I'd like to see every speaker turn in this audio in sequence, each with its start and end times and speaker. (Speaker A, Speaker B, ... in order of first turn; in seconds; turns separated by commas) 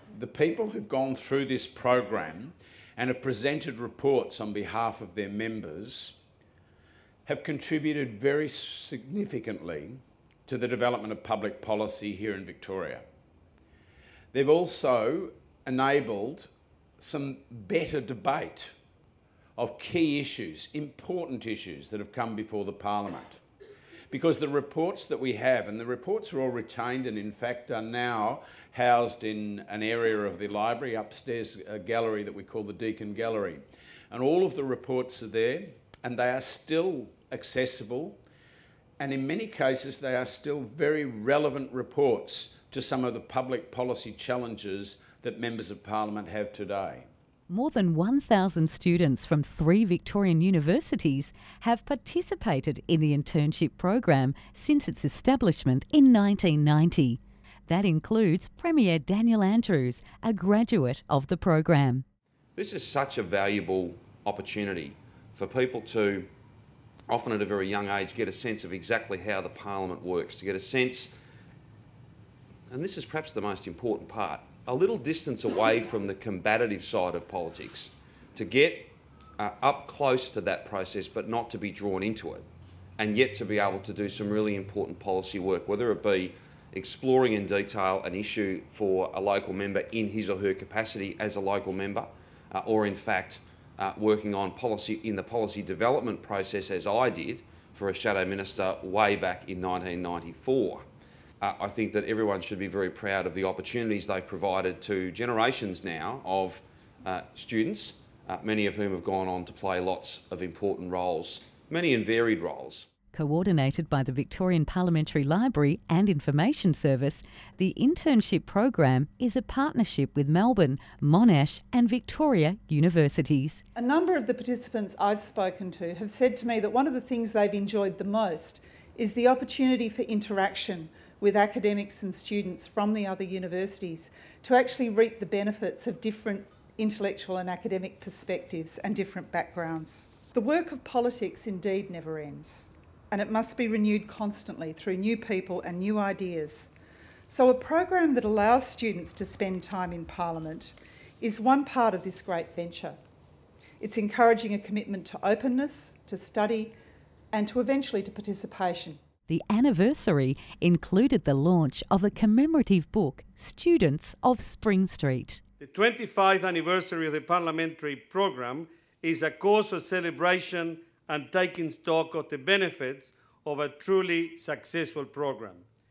Speaker A: 0.1-6.2, Speaker A: 7.3-13.1, Speaker A: 14.3-18.8, Speaker A: 19.6-23.4, Speaker A: 24.1-38.2, Speaker A: 39.0-47.1, Speaker B: 47.5-62.0, Speaker C: 62.6-66.3, Speaker C: 67.1-71.1, Speaker C: 72.7-82.5, Speaker C: 83.0-100.8, Speaker C: 101.4-112.9, Speaker B: 113.1-123.6, Speaker D: 123.8-146.7, Speaker D: 147.3-153.0, Speaker D: 153.8-156.8, Speaker D: 157.3-159.0, Speaker B: 159.3-165.4, Speaker E: 165.6-175.7